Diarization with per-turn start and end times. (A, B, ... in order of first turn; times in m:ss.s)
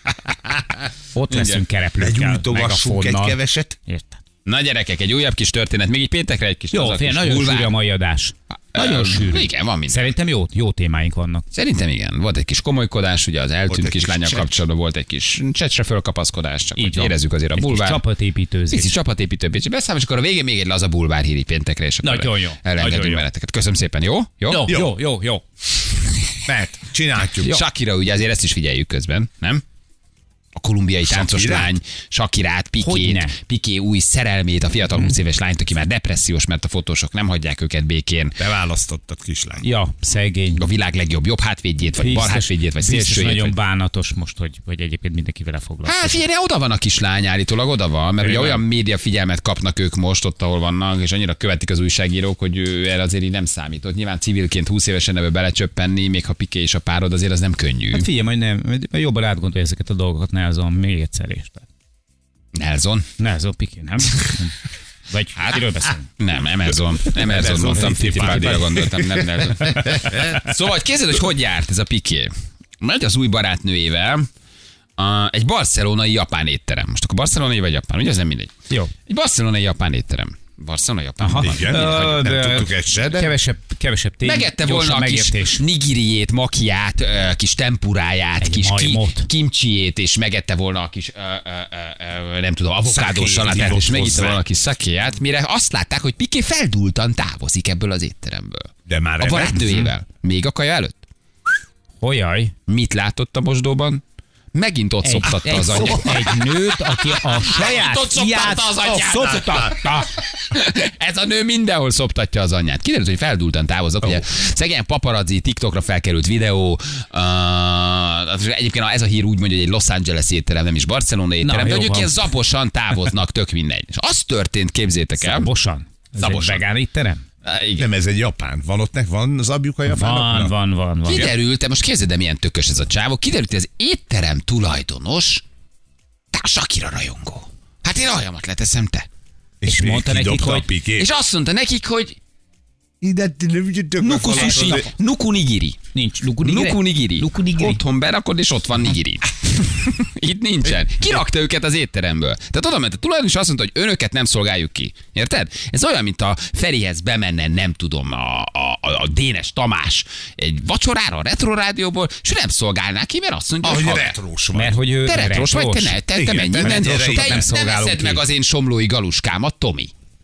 0:01.1-0:04.2 A
0:01.3-0:01.6 B
0:02.0-0:03.8 C
0:04.4-0:07.8 B
0:06.7-0:11.4 A
0:08.7-0:10.1 B
0:11.5-0:18.0 B
0:13.7-0:14.6 C
0:16.8-0:18.9 A
0:18.7-0:24.7 B
0:22.0-0:23.2 A
0:24.5-0:25.4 A
0:24.6-0:24.9 C
0:26.4-0:27.6 C
0:27.4-0:29.6 B
0:30.6-0:38.4 B
0:31.0-0:31.8 C
0:32.8-0:33.3 A
0:38.4-0:39.7 C
0:39.6-0:40.6 A
0:40.6-0:43.6 B
0:42.0-0:46.2 A
0:45.8-0:58.1 B
0:48.2-0:48.6 A
0:57.9-1:01.6 A
1:02.5-1:03.1 B
1:03.2-1:04.5 A
1:05.1-1:06.0 A
1:06.2-1:14.3 B
1:07.2-1:10.2 C
1:15.0-1:18.5 B
1:19.1-1:22.0 B
1:21.2-1:25.6 A
1:21.4-1:23.3 C
1:24.2-1:41.1 B
1:28.4-1:29.3 A
1:32.8-1:34.4 C
1:38.9-1:39.8 C
1:42.0-1:42.5 A
1:42.7-1:44.0 B
1:44.5-2:05.5 B
1:45.0-1:50.1 A
1:45.2-1:46.3 C
1:48.9-1:49.6 C
2:01.4-2:02.3 A
2:05.2-2:07.2 A
2:06.2-2:06.6 B
2:07.4-2:07.9 B
2:07.8-2:10.5 C
2:09.8-2:11.3 A
2:11.0-2:15.4 B
2:16.3-2:19.0 B
2:19.6-2:21.1 C
2:19.6-2:20.7 A
2:21.0-2:22.2 B
2:23.0-2:24.9 C
2:24.0-2:25.8 B
2:24.2-2:24.9 A
2:25.9-2:27.8 A
2:26.4-2:44.1 B
2:43.6-2:44.8 C
2:44.5-2:46.0 A
2:45.0-2:49.9 B
2:46.1-2:47.4 C
2:46.6-2:48.2 A